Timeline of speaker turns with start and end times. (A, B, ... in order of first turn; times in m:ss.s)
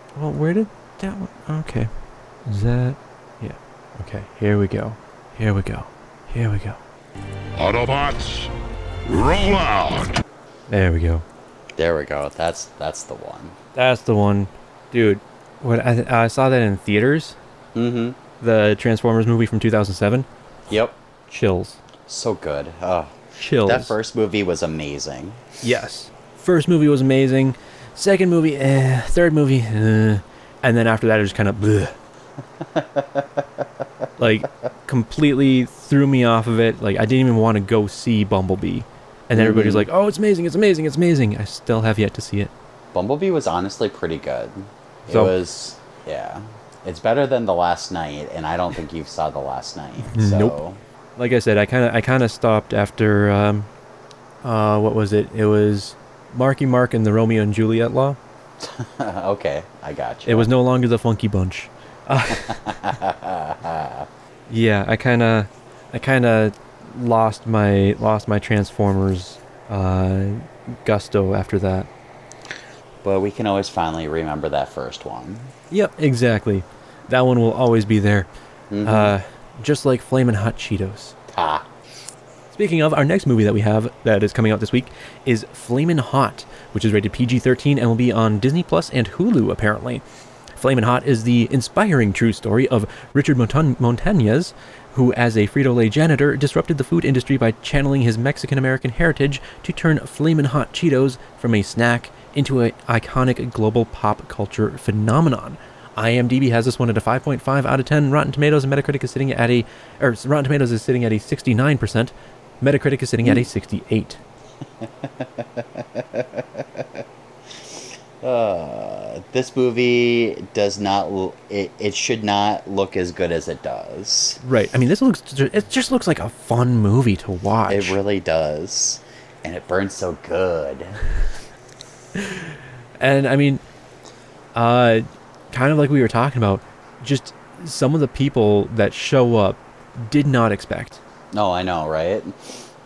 0:00.2-0:01.9 A
0:02.4-0:06.8 A
0:07.6-0:08.5 B
0:09.0-0:10.2 B
0:10.7-0:11.2 A
0:11.8-0:13.6 C
0:13.7-0:17.4 A
0:17.7-0:18.2 C
0:18.4-0:20.3 A
0:20.7-0:21.0 C
0:21.3-0:21.8 A
0:22.1-0:25.4 C
0:23.4-0:23.9 A
0:25.6-0:32.0 A
0:32.6-0:33.7 C
0:34.2-0:42.5 A
0:39.3-0:39.9 C
0:42.9-0:50.8 C
0:45.1-0:45.3 A
0:50.1-0:50.6 A
0:51.2-0:53.7 A
0:54.4-0:58.2 A
0:58.6-1:00.5 C
1:00.2-1:02.7 A
1:02.3-1:04.1 C
1:04.5-1:11.9 A
1:13.0-1:15.5 C
1:15.7-1:18.3 A
1:18.7-1:19.1 C
1:18.8-1:21.1 A
1:21.3-1:21.7 C
1:22.5-1:30.0 A
1:30.6-1:54.2 A
1:54.8-2:04.4 C
2:04.4-2:08.0 A
2:07.7-2:11.0 C
2:12.1-2:13.6 A
2:14.5-2:21.0 A
2:21.3-2:22.7 C